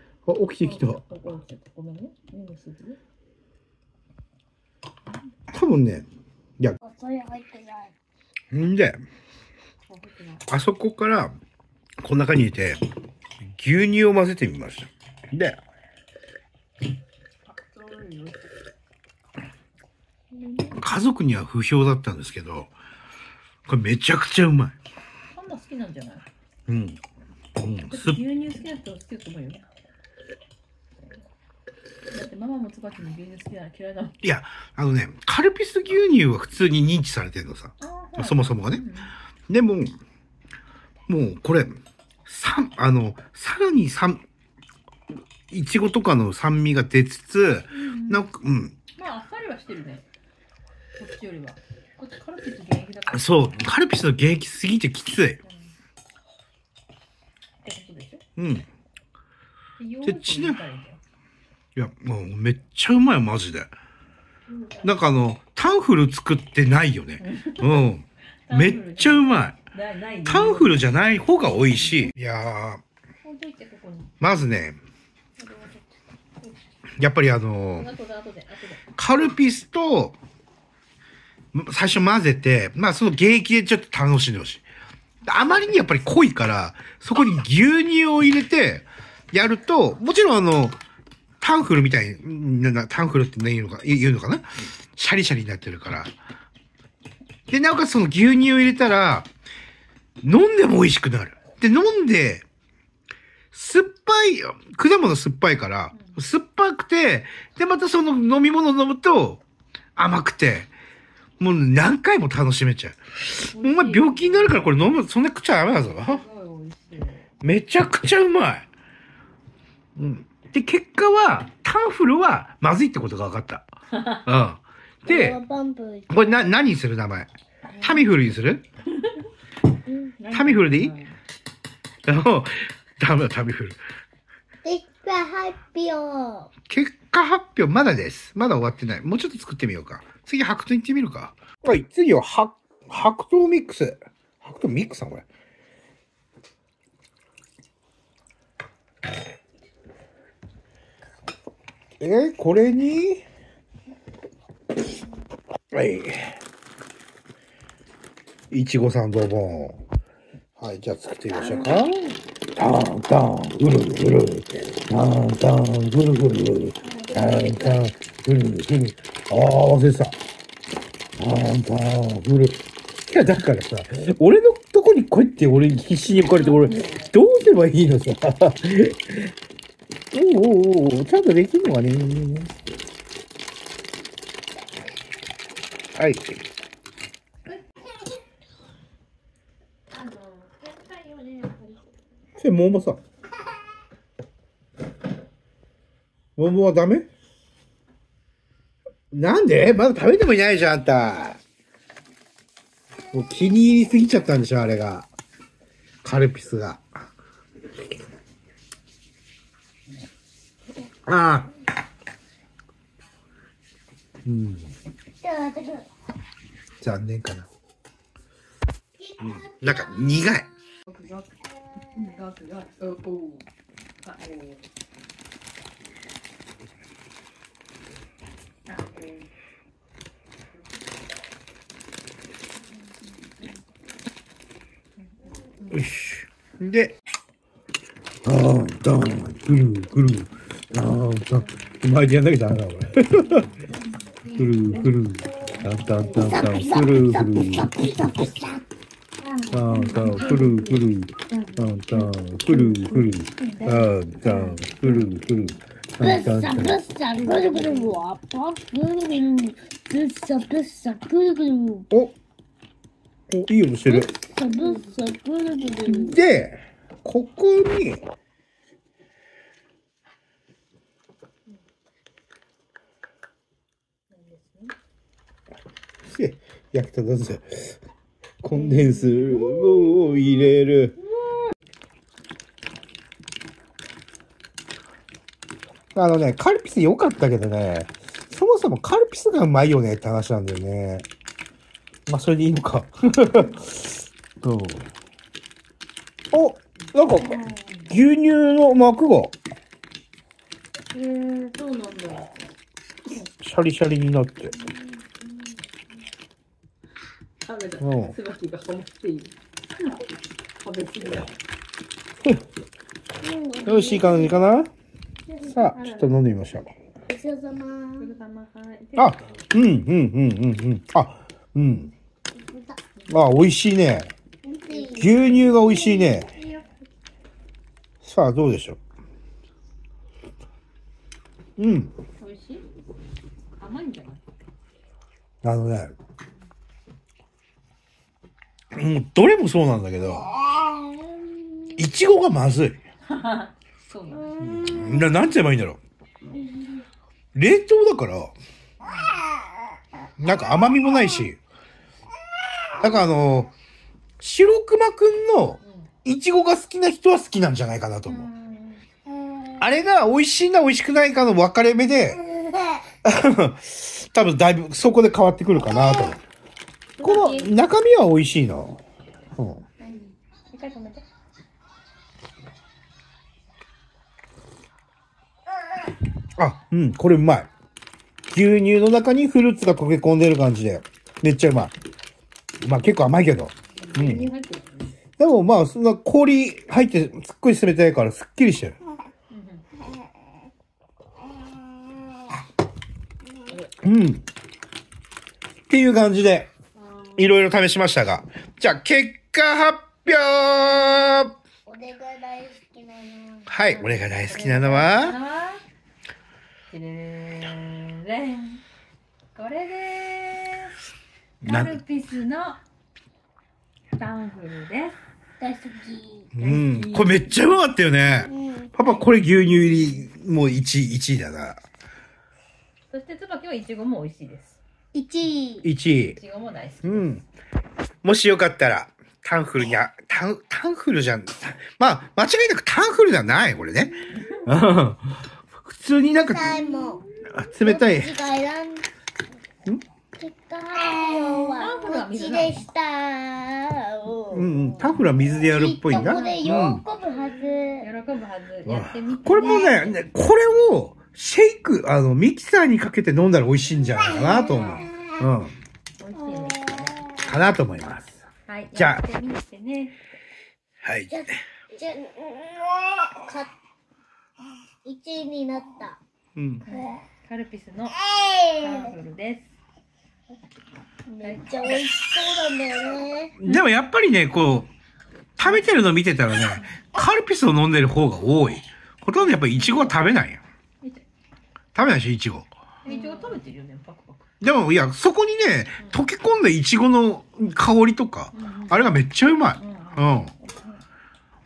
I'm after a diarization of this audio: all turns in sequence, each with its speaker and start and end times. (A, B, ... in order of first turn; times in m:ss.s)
0:00.3-0:01.0 A
0:00.6-0:03.0 B
0:05.5-0:06.1 A
0:06.8-0:07.9 C
0:08.5-0:09.0 A
0:09.9-0:10.5 B
0:10.5-0:11.4 A
0:12.0-0:12.8 A
0:13.5-0:15.6 A
0:17.5-0:18.5 B
0:20.3-0:20.8 B
0:20.8-0:22.7 A
0:23.7-0:24.8 A
0:25.3-0:26.3 B
0:26.7-0:27.0 A
0:27.6-0:28.2 A
0:27.8-0:29.7 B
0:32.1-0:34.2 B
0:34.2-0:38.8 A
0:37.8-0:39.2 B
0:39.5-0:39.9 A
0:41.1-0:44.2 A
0:45.5-0:48.8 A
0:47.7-0:48.3 B
0:49.0-0:50.0 B
0:51.0-0:53.7 B
0:53.1-0:55.4 A
0:55.4-0:55.7 B
0:57.6-0:58.2 B
0:58.4-0:58.7 A
0:59.8-1:01.0 B
1:00.0-1:00.6 A
1:01.8-1:03.7 A
1:04.5-1:05.0 B
1:04.8-1:09.6 A
1:07.2-1:07.9 B
1:08.5-1:10.8 B
1:10.2-1:12.8 A
1:13.2-1:14.1 B
1:14.2-1:14.8 A
1:15.4-1:15.9 C
1:17.0-1:17.9 A
1:17.7-1:18.8 B
1:19.0-1:20.2 A
1:21.5-1:24.6 A
1:25.2-1:30.8 A
1:31.4-1:36.1 A
1:37.5-1:39.3 A
1:40.2-1:42.4 A
1:43.5-1:49.4 A
1:50.0-1:50.7 A
1:51.4-1:56.2 A
1:53.4-1:54.7 B
1:55.7-1:57.3 B
1:57.4-1:58.7 A
2:00.0-2:03.7 A
2:04.2-2:05.4 A
2:05.1-2:06.3 C
2:06.1-2:08.6 A
2:07.7-2:08.1 B
2:09.9-2:10.2 C
2:10.2-2:11.2 B
2:10.3-2:11.0 A
2:12.0-2:13.8 A
2:14.6-2:16.5 C
2:16.7-2:25.3 A
2:32.0-2:33.2 A
2:35.7-2:36.4 A
2:38.5-2:39.8 A
2:40.6-2:50.2 A
2:46.9-2:47.8 B
2:51.2-2:59.3 A
2:56.1-2:57.1 B
3:00.1-3:02.5 A
3:06.0-3:06.4 A
3:09.9-3:11.8 B
3:12.4-3:13.0 A
3:16.4-3:17.1 A
3:19.1-3:21.4 A
3:23.1-3:25.1 A
3:26.0-3:26.9 A
3:31.1-3:31.5 A
3:34.2-3:34.7 A
3:35.2-3:35.9 C
3:36.8-3:37.5 A
3:39.0-3:40.1 C
3:39.2-3:40.5 A
3:40.9-3:43.5 B
3:44.0-3:44.6 B
3:48.7-3:49.3 B
3:55.7-3:57.0 A
3:58.2-4:03.5 A
4:04.1-4:04.9 B
4:04.4-4:07.7 A
4:05.5-4:06.1 B
4:06.1-4:08.6 C
4:09.4-4:15.1 B
4:09.5-4:16.8 A
4:16.0-4:21.9 C
4:17.1-4:18.0 B
4:21.9-4:22.2 A
4:23.3-4:24.1 A
4:23.8-4:26.2 C
4:24.4-4:24.9 B
4:25.9-4:28.0 A
4:34.1-4:34.8 B
4:36.1-4:37.8 A
4:38.4-4:41.0 A
4:38.5-4:40.5 B
4:46.0-4:51.1 A
4:52.1-4:54.9 A
4:56.3-4:59.4 A
4:57.2-4:57.9 B
5:00.9-5:02.3 B
5:03.4-5:04.5 A
5:07.4-5:10.0 B
5:07.8-5:08.2 A
5:10.6-5:11.3 B
5:13.2-5:14.5 C
5:13.6-5:14.7 A
5:15.4-5:16.3 B
5:15.5-5:16.7 A
5:17.1-5:18.1 C
5:18.0-5:19.3 B
5:19.0-5:21.9 A
5:22.3-5:22.8 C
5:23.1-5:24.1 A
5:24.4-5:25.3 C
5:24.7-5:26.6 B
5:24.9-5:26.3 A
5:25.8-5:26.2 C
5:28.0-5:28.8 A
5:31.6-5:31.9 A
5:32.2-5:32.6 B
5:33.6-5:34.2 B
5:35.4-5:35.9 A
5:38.7-5:40.3 A
5:41.8-5:42.8 A
5:43.0-5:44.8 B
5:44.1-5:44.7 C
5:44.6-5:45.8 A
5:47.4-5:48.3 A
5:48.8-5:49.2 B
5:50.2-5:51.4 A
5:52.8-5:53.5 A
5:54.2-5:58.3 A
5:55.6-5:55.9 B
5:58.1-5:58.8 B
5:59.6-6:02.2 A
6:03.0-6:06.2 A
6:07.0-6:07.5 B
6:07.0-6:08.8 A
6:09.4-6:09.6 A
6:10.5-6:11.0 B
6:16.4-6:17.5 A
6:18.3-6:21.7 A
6:22.6-6:24.3 A
6:23.8-6:25.0 B
6:25.2-6:28.8 A
6:29.3-6:29.7 B
6:33.8-6:34.2 A
6:35.7-6:36.5 A
6:36.8-6:37.3 B
6:37.2-6:41.3 A
6:41.7-6:43.5 C
6:43.5-6:45.2 A
6:43.6-6:45.6 B
6:46.7-6:48.6 B
6:49.4-6:50.7 B
6:51.4-6:51.8 A
6:51.4-6:52.6 B
6:53.9-6:55.0 B
6:55.4-6:56.3 C
6:56.4-7:01.6 A
6:56.4-6:57.6 B
6:58.2-6:58.7 C
6:58.8-7:00.1 B
7:02.9-7:04.6 B
7:04.9-7:05.7 C
7:05.6-7:06.2 A
7:06.2-7:07.1 B
7:06.8-7:07.2 A
7:08.0-7:16.6 A
7:16.2-7:17.0 C
7:16.5-7:17.3 B
7:17.3-7:18.1 A
7:17.6-7:18.9 C
7:20.2-7:24.8 C
7:21.5-7:22.6 B
7:24.3-7:26.8 A
7:24.8-7:25.0 B
7:25.4-7:27.9 C
7:25.9-7:30.1 B
7:28.6-7:35.6 A
7:34.0-7:35.2 C
7:34.3-7:34.9 B
7:36.0-7:37.0 B
7:36.6-7:37.1 C
7:37.2-7:39.0 A
7:38.5-7:40.0 B
7:40.8-7:41.2 A
7:41.1-7:42.4 C
7:43.1-7:43.5 C
7:44.8-7:46.0 C
7:46.4-7:46.6 A
7:46.7-7:48.0 B
7:48.0-7:49.0 C
7:48.5-7:49.5 B
7:51.1-7:53.4 C
7:51.2-7:51.9 B
7:53.4-7:54.7 A
7:55.4-8:00.4 A
7:59.1-8:00.0 B
8:01.8-8:02.5 A
8:02.8-8:04.3 B
8:02.9-8:03.3 C
8:04.4-8:10.3 A
8:05.8-8:06.0 B
8:08.3-8:10.8 B